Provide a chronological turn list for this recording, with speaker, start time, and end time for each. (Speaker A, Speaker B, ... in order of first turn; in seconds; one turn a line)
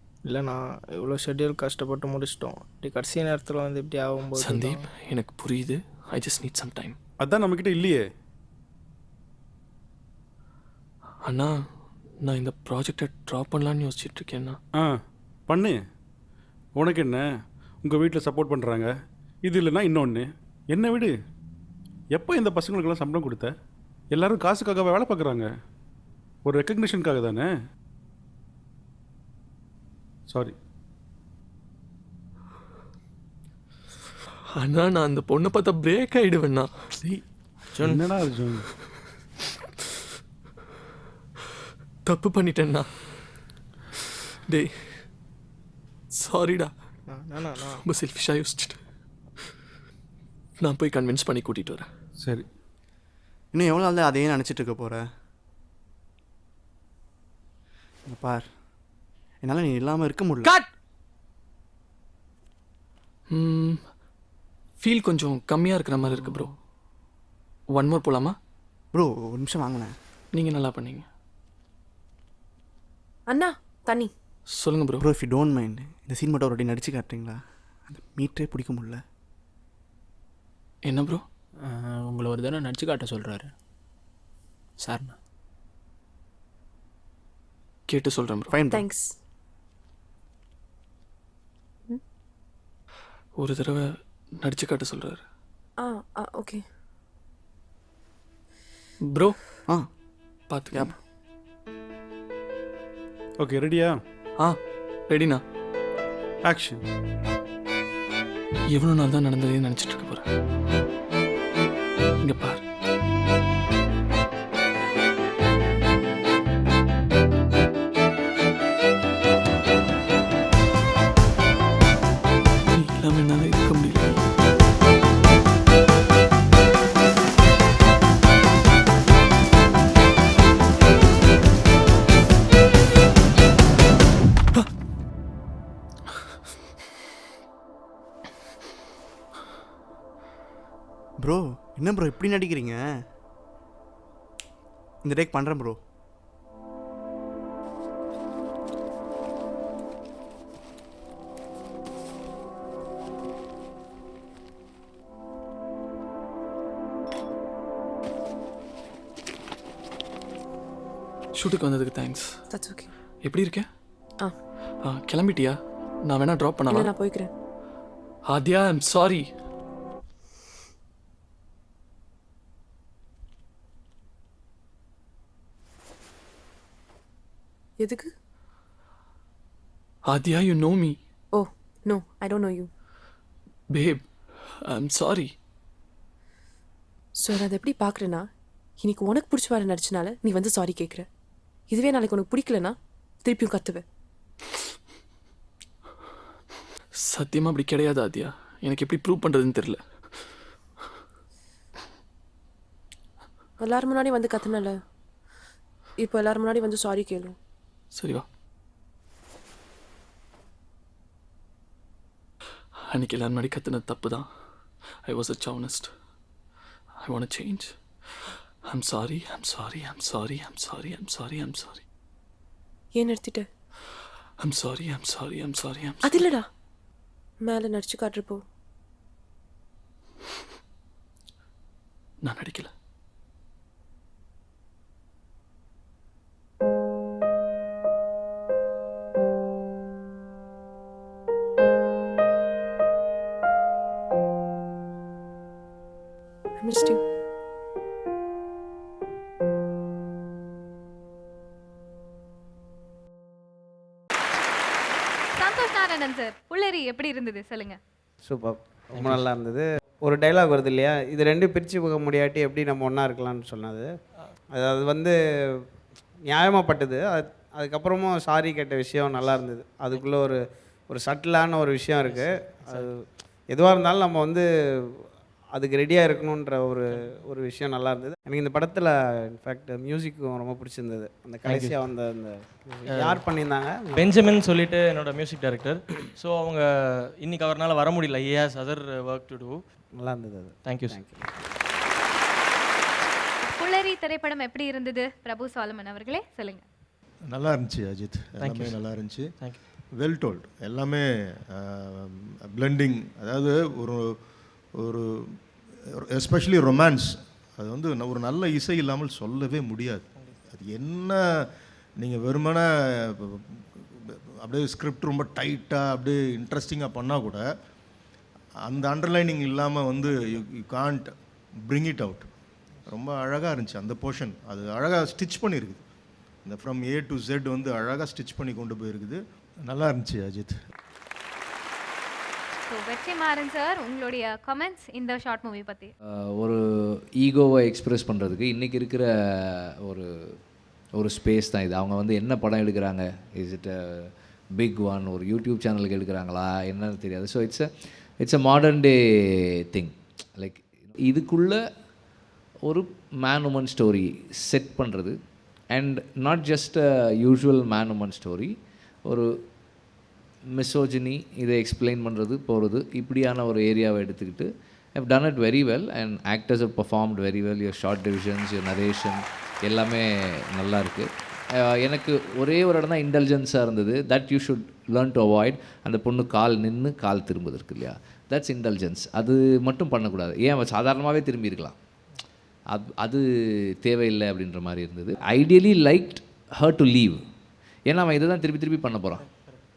Speaker A: 0.2-4.8
Speaker B: 4.4-7.0
Speaker C: 7.2-8.0
Speaker B: 11.3-11.5
Speaker B: 12.2-14.6
Speaker C: 15.5-15.8
Speaker C: 16.8-17.2
Speaker C: 17.8-18.9
Speaker C: 19.4-21.1
Speaker C: 22.1-23.5
Speaker C: 24.1-25.5
Speaker C: 26.4-27.5
Speaker C: 30.3-30.6
Speaker B: 34.6-36.7
Speaker C: 37.8-38.7
Speaker B: 42.0-43.0
Speaker B: 44.5-45.1
Speaker B: 46.1-46.7
Speaker A: 47.1-47.7
Speaker B: 47.6-48.8
Speaker B: 50.6-51.9
Speaker C: 52.2-52.5
Speaker D: 53.5-55.0
Speaker D: 58.1-58.5
Speaker D: 59.4-60.5
Speaker B: 63.3-63.8
Speaker B: 64.8-66.5
Speaker D: 66.1-66.4
Speaker B: 67.7-68.4
Speaker D: 68.9-69.9
Speaker B: 70.3-71.1
Speaker E: 73.3-74.1
Speaker B: 74.5-75.1
Speaker D: 75.0-79.0
Speaker B: 80.9-81.2
Speaker F: 81.6-83.5
Speaker F: 84.8-85.2
Speaker B: 87.9-88.5
Speaker D: 88.5-88.9
Speaker E: 88.7-89.2
Speaker B: 93.4-93.9
Speaker B: 94.4-95.2
Speaker E: 95.8-96.6
Speaker B: 99.1-99.4
Speaker B: 100.5-101.0
Speaker C: 103.4-104.0
Speaker B: 105.1-105.4
Speaker C: 106.5-106.8
Speaker B: 108.7-110.2
Speaker B: 112.2-112.6
Speaker B: 122.7-124.2
Speaker D: 141.2-142.8
Speaker D: 145.0-145.8
Speaker B: 161.3-162.3
Speaker E: 162.5-162.9
Speaker B: 163.2-163.7
Speaker B: 164.8-166.9
Speaker E: 166.7-167.3
Speaker B: 168.3-169.3
Speaker E: 177.8-178.1
Speaker B: 180.1-181.0
Speaker E: 181.3-182.7
Speaker B: 183.7-184.0
Speaker B: 184.7-185.3
Speaker E: 187.2-188.2
Speaker E: 188.8-191.1
Speaker E: 191.7-193.8
Speaker B: 197.1-199.8
Speaker E: 203.6-204.8
Speaker E: 206.0-207.4
Speaker B: 207.9-208.3
Speaker B: 212.9-214.3
Speaker B: 215.1-215.9
Speaker B: 217.0-217.7
Speaker B: 218.7-221.8
Speaker E: 222.9-223.5
Speaker B: 224.4-226.2
Speaker E: 226.0-226.5
Speaker E: 227.4-228.4
Speaker B: 232.2-232.7
Speaker E: 246.6-247.0
Speaker G: 255.4-257.8
Speaker H: 258.2-263.9
Speaker H: 264.5-265.1
Speaker H: 266.3-274.4
Speaker H: 275.5-284.1
Speaker I: 284.0-289.6
Speaker H: 290.0-291.4
Speaker I: 290.6-290.9
Speaker G: 293.4-296.6
Speaker J: 297.3-299.3
Speaker I: 298.4-298.8
Speaker J: 300.0-304.1
Speaker J: 304.8-305.4
Speaker J: 306.0-311.4
Speaker J: 312.0-317.4
Speaker J: 318.7-321.1
Speaker J: 321.7-322.3
Speaker J: 322.9-325.8
Speaker J: 326.5-330.6
Speaker G: 332.7-335.9
Speaker K: 336.4-340.4
Speaker K: 340.9-351.6
Speaker K: 352.6-355.2
Speaker K: 355.7-358.5
Speaker K: 360.5-381.8
Speaker K: 382.7-383.2
Speaker K: 383.8-387.2
Speaker K: 387.9-389.3